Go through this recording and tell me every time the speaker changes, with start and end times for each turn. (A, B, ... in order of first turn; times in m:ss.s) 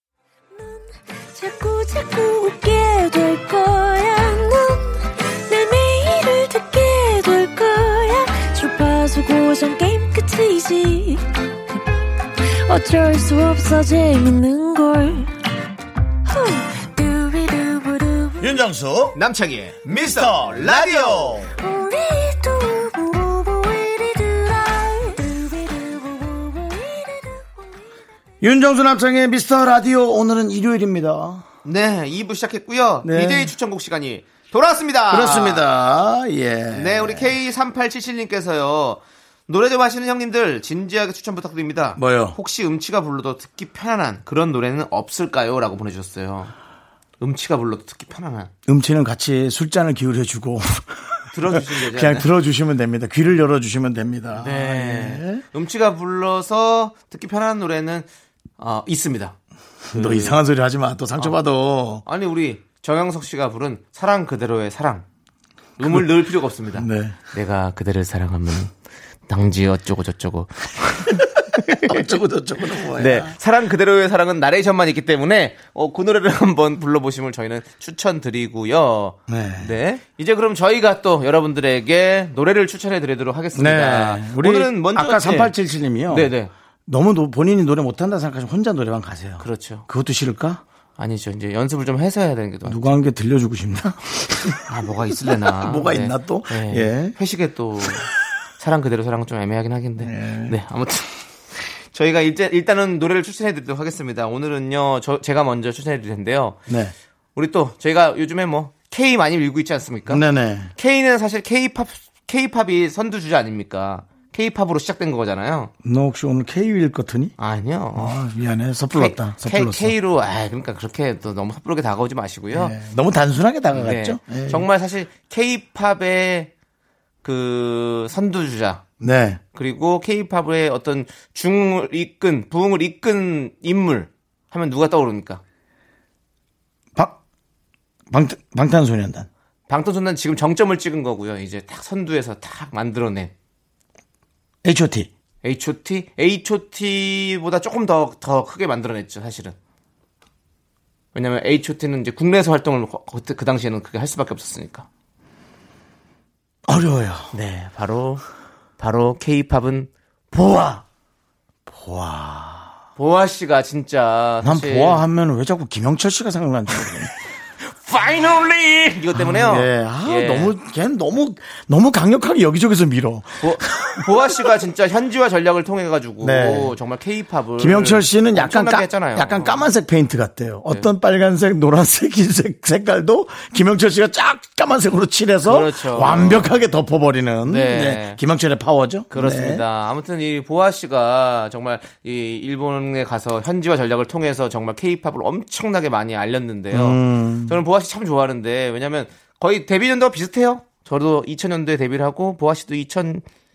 0:00.6-0:11.8 A
0:12.4-0:15.3 A
0:16.2-0:18.5 A
0:18.4-0:19.2 B
0:19.2-0:21.4 C
0:20.0-0:21.5 B
0:21.6-0:27.7 A
0:28.4-0:31.4 B
0:31.6-0:35.6 C
0:33.0-0:33.5 B
0:35.1-0:37.3 B
0:36.7-0:46.5 C
0:42.0-0:42.4 B
0:47.2-0:48.5 C
0:48.7-0:55.4 B
0:51.3-0:52.3 C
0:54.4-0:58.1 C
0:58.6-0:59.4 C
0:59.9-1:00.4 C
0:59.9-1:02.0 B
1:02.1-1:05.0 C
1:05.8-1:08.7 C
1:05.8-1:06.1 B
1:06.7-1:07.2 B
1:09.3-1:12.0 C
1:11.8-1:13.4 B
1:12.9-1:25.5 C
1:19.3-1:19.7 B
1:23.5-1:26.3 B
1:26.1-1:26.5 C
1:26.9-1:30.6 B
1:29.4-1:29.8 C
1:31.0-1:32.9 C
1:32.7-1:34.7 B
1:34.7-1:46.6 C
1:35.3-1:37.2 B
1:40.0-1:40.6 B
1:46.7-1:46.9 B
1:47.4-1:50.2 C
1:50.1-1:50.7 B
1:50.8-1:55.7 C
1:55.8-1:57.3 B
1:57.4-1:58.2 C
1:58.0-1:59.9 B
1:58.9-2:02.7 C
2:02.5-2:04.7 B
2:03.7-2:06.5 C
2:07.2-2:08.8 C
2:09.0-2:09.4 B
2:09.6-2:15.4 C
2:18.1-2:19.3 B
2:19.7-2:23.3 C
2:24.6-2:25.1 B
2:25.4-2:29.6 C
2:31.1-2:34.9 C
2:36.7-2:37.3 B
2:37.3-2:38.2 C
2:38.8-2:40.8 C
2:41.7-2:42.7 B
2:43.0-2:45.0 C
2:44.4-2:47.1 B
2:47.7-2:50.5 C
2:49.1-2:54.3 B
2:53.4-2:59.7 C
2:56.2-2:56.7 B
2:57.6-3:09.6 B
3:05.4-3:06.5 C
3:07.5-3:08.2 C
3:09.1-3:23.2 C
3:16.7-3:17.6 B